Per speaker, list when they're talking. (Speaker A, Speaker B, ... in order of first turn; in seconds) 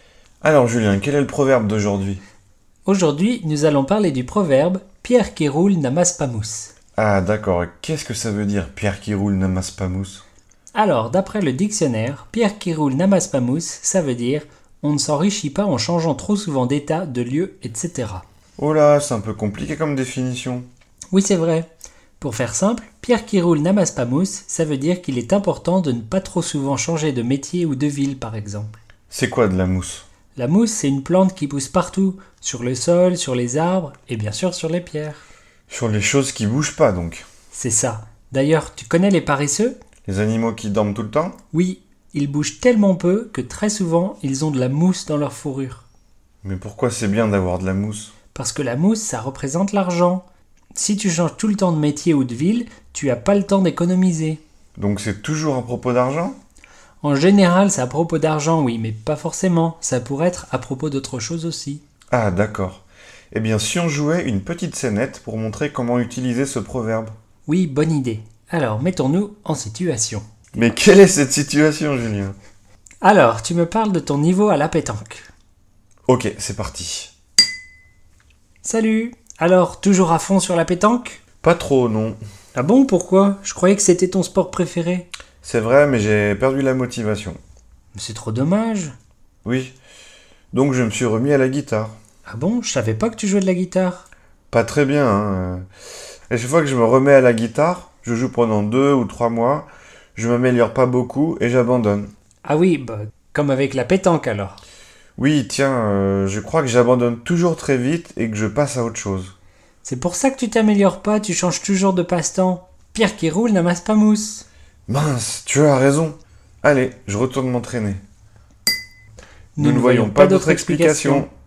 Speaker A: 0.4-2.2, 7.0-10.2, 18.6-20.7, 29.1-30.0, 35.7-37.2, 40.0-41.4, 46.4-48.1, 54.8-56.4, 62.1-67.1, 70.5-72.3, 76.1-77.1, 81.4-82.2, 85.4-87.4, 89.4-89.7, 90.5-91.9, 94.5-95.6, 96.3-102.1, 105.2-109.3, 114.9-118.0, 119.6-121.3
Speaker B: 2.9-6.7, 10.7-18.2, 21.1-21.7, 22.2-28.8, 30.4-35.2, 37.5-39.7, 41.5-45.8, 48.3-50.2, 50.7-54.4, 57.0-61.8, 67.5-70.2, 73.0-75.3, 78.6-81.2, 82.5-85.1, 87.9-88.9, 92.3-94.0, 102.4-104.6, 109.8-114.4, 119.5-121.3